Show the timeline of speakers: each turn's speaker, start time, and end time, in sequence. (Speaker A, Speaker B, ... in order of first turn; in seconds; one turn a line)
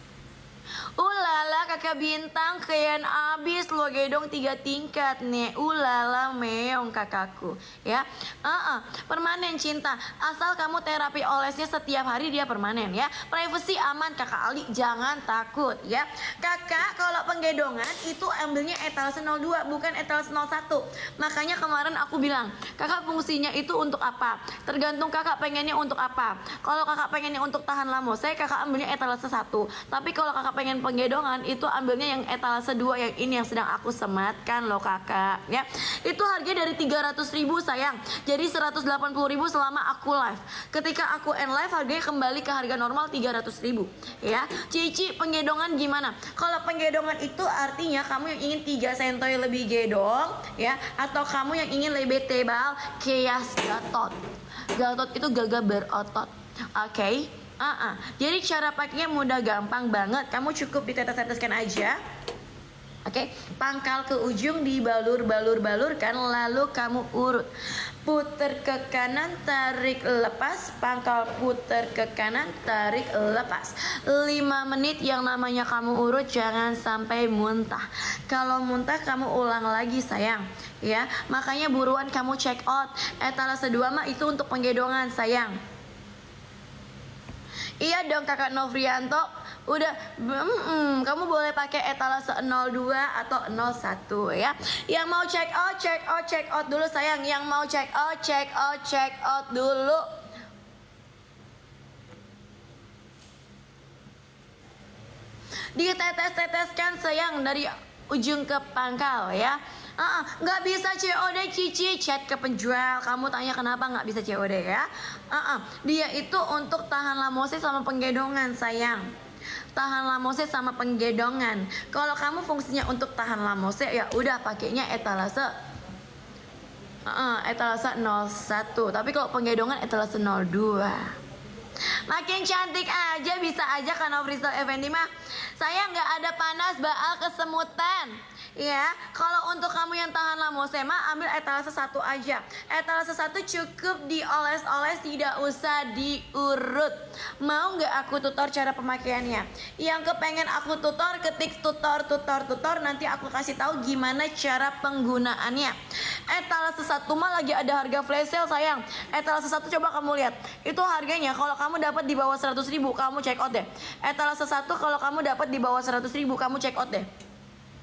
Speaker A: 1.0-54.2
Speaker A: 54.8-62.0
Speaker A: 63.0-67.5
Speaker A: 68.0-85.6
Speaker A: 87.8-100.1
Speaker A: 105.7-119.1
Speaker A: 119.7-125.5
Speaker A: 127.0-131.2
Speaker A: 132.1-167.1